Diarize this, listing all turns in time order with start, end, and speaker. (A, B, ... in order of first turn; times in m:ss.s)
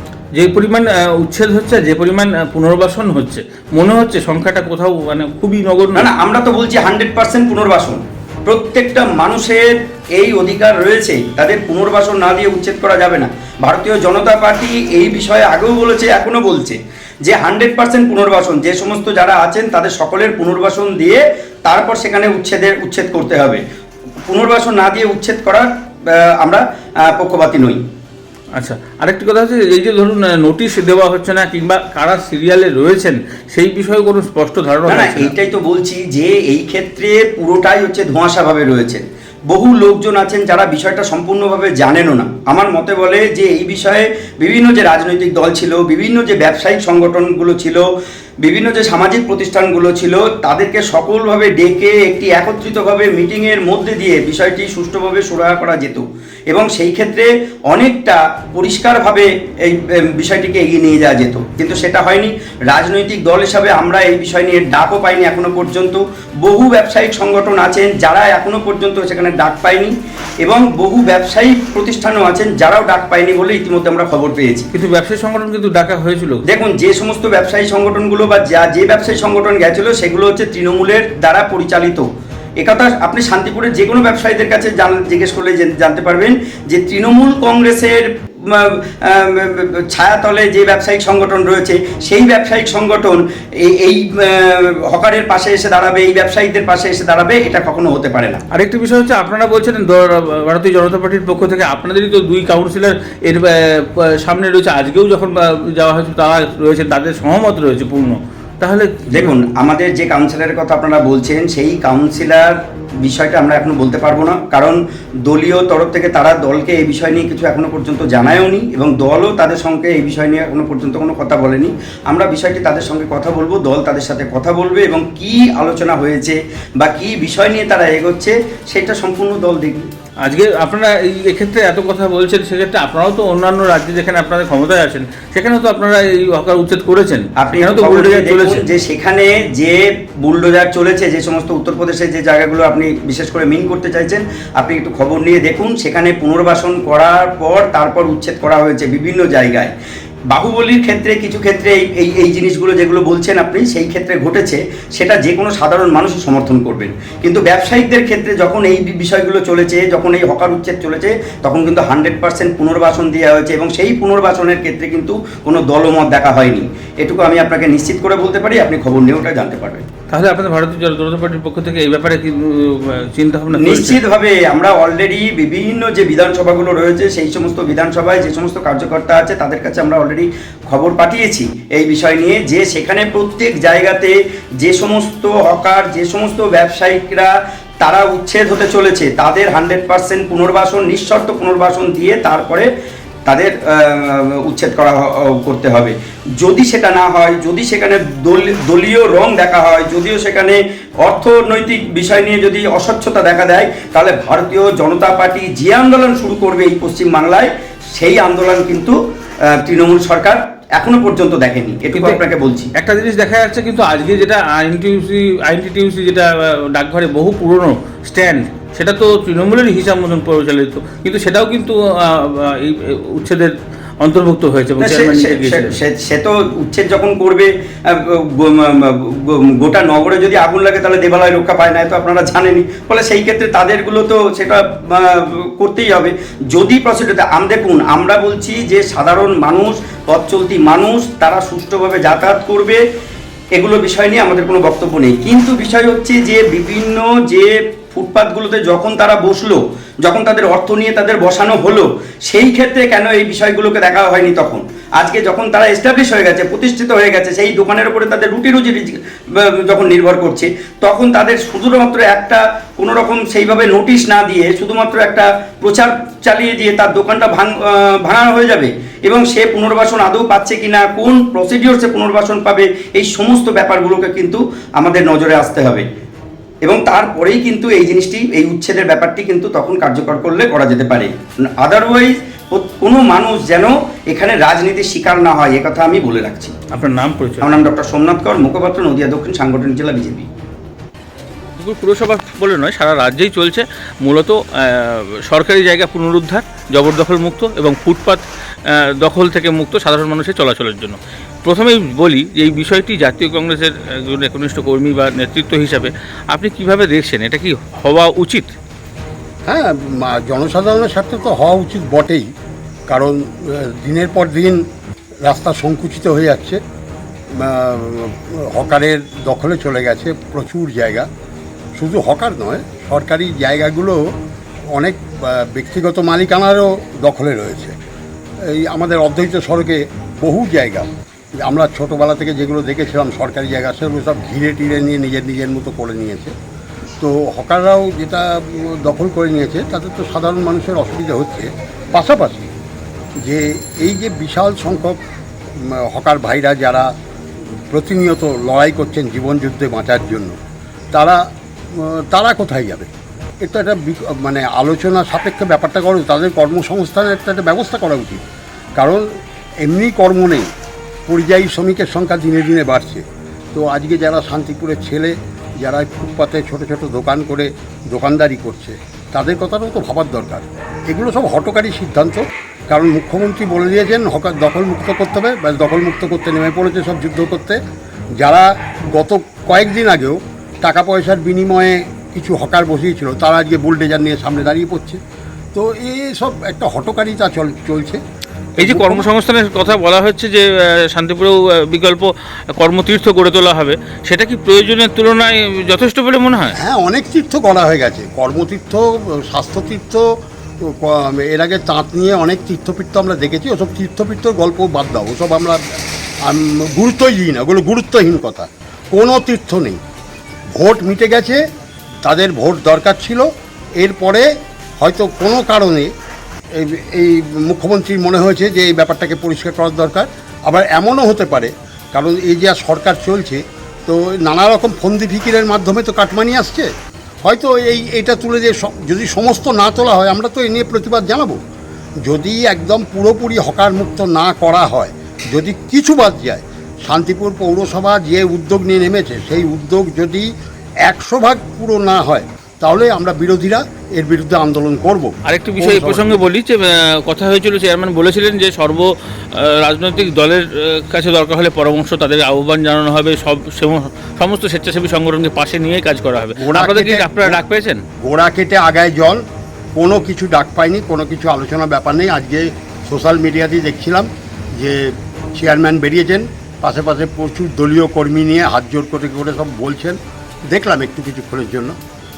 0:00.4-0:06.1 A
0:06.0-0:23.6 B
0:24.3-0:27.8 B
0:28.6-0:35.3 A
0:34.9-0:47.8 B
0:48.4-1:14.7 B
1:14.7-1:16.4 A
1:16.5-1:22.1 B
1:22.6-1:38.4 B
1:38.5-1:49.3 A
1:49.1-2:09.9 B
2:10.2-2:18.6 A
2:17.4-2:29.7 B
2:30.3-2:49.8 B
2:50.1-2:54.0 A
2:53.6-3:12.7 B
3:13.3-3:29.0 B
3:29.5-3:32.7 B
3:31.9-3:32.2 A
3:32.8-3:45.7 A
3:44.8-4:02.8 B
4:03.6-4:35.9 B
4:36.6-4:46.5 B
4:46.8-4:47.6 A
4:47.4-4:50.3 B
4:51.6-4:58.3 A
4:59.0-5:08.5 A
5:09.5-5:12.3 C
5:12.9-5:14.6 C
5:15.2-5:16.6 C
5:17.4-5:21.1 C
5:21.8-5:24.1 C
5:24.7-5:27.8 C
5:28.4-5:30.9 C
5:31.4-5:36.3 C
5:37.0-5:42.5 C
5:43.2-5:45.0 C
5:45.6-5:46.9 C
5:47.7-5:50.4 C
5:50.9-5:51.2 C
5:51.7-5:52.9 C
5:53.4-5:58.3 C
5:58.8-5:59.1 C
5:59.6-6:00.5 C
6:01.1-6:17.6 C
6:18.2-6:25.0 C
6:25.5-6:28.0 C
6:28.6-6:29.1 C
6:28.6-6:36.6 A
6:36.6-6:40.1 C
6:40.6-6:49.8 C
6:50.5-6:51.4 C
6:52.0-6:55.9 C
6:56.5-7:06.7 C
7:07.2-7:11.4 C
7:12.1-7:20.3 C
7:20.9-7:26.2 C
7:25.3-7:37.8 A
7:36.4-7:37.4 C
7:38.0-7:39.2 C
7:39.8-7:50.0 C
7:50.5-7:51.8 C